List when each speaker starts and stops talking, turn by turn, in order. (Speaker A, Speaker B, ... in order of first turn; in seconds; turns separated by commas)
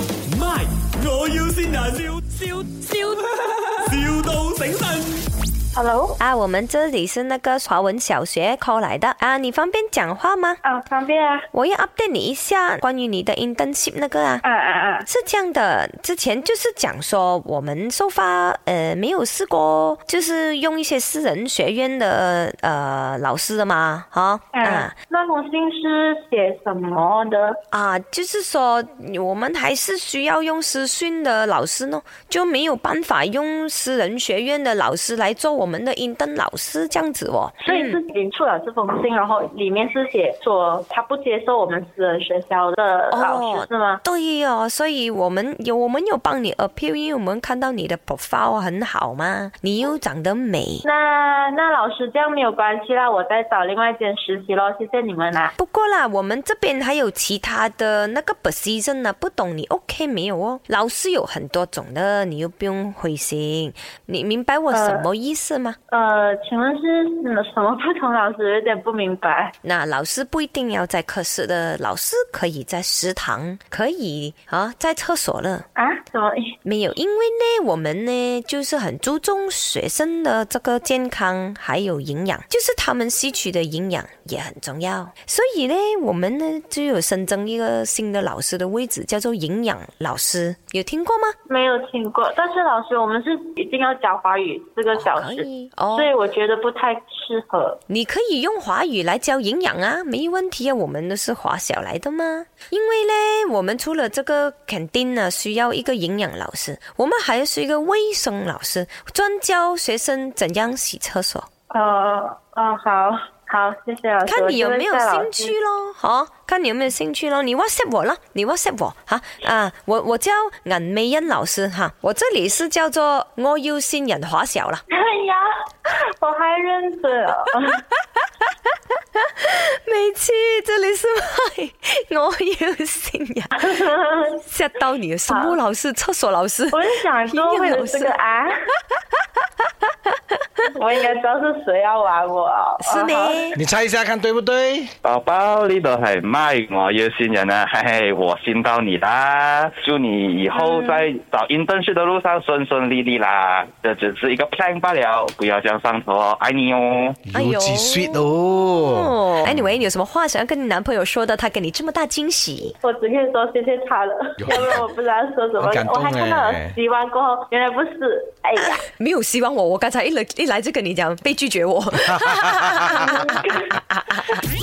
Speaker A: 0.3-5.2, Speaker B: 5.7-6.2, Speaker C: 6.2-10.6, Speaker B: 10.6-11.5, Speaker C: 11.5-14.4, Speaker B: 14.4-15.1, Speaker C: 15.1-24.9, Speaker B: 24.5-27.6, Speaker C: 27.7-38.0, Speaker B: 37.6-44.0, Speaker C: 43.1-50.9, Speaker B: 50.8-55.5, Speaker C: 55.6-65.8, Speaker B: 64.7-65.1, Speaker B: 65.9-69.5, Speaker C: 69.6-75.7, Speaker B: 75.8-76.5, Speaker C: 76.6-91.3, Speaker B: 91.5-97.8, Speaker C: 94.9-96.1, Speaker C: 97.9-111.5, Speaker B: 111.7-115.5, Speaker C: 114.2-124.8, Speaker B: 124.9-127.8, Speaker C: 129.2-133.7, Speaker B: 133.6-134.4, Speaker C: 134.4-138.1, Speaker B: 135.3-135.6, Speaker B: 136.7-138.7, Speaker C: 139.9-140.4, Speaker B: 140.7-143.5, Speaker C: 142.8-143.6, Speaker D: 143.6-144.9, Speaker E: 145.0-157.2, Speaker B: 150.6-151.0, Speaker D: 157.2-159.8, Speaker C: 157.3-162.8, Speaker B: 162.8-168.8, Speaker D: 164.4-164.8, Speaker D: 165.6-166.8, Speaker C: 168.6-174.4, Speaker B: 172.9-173.8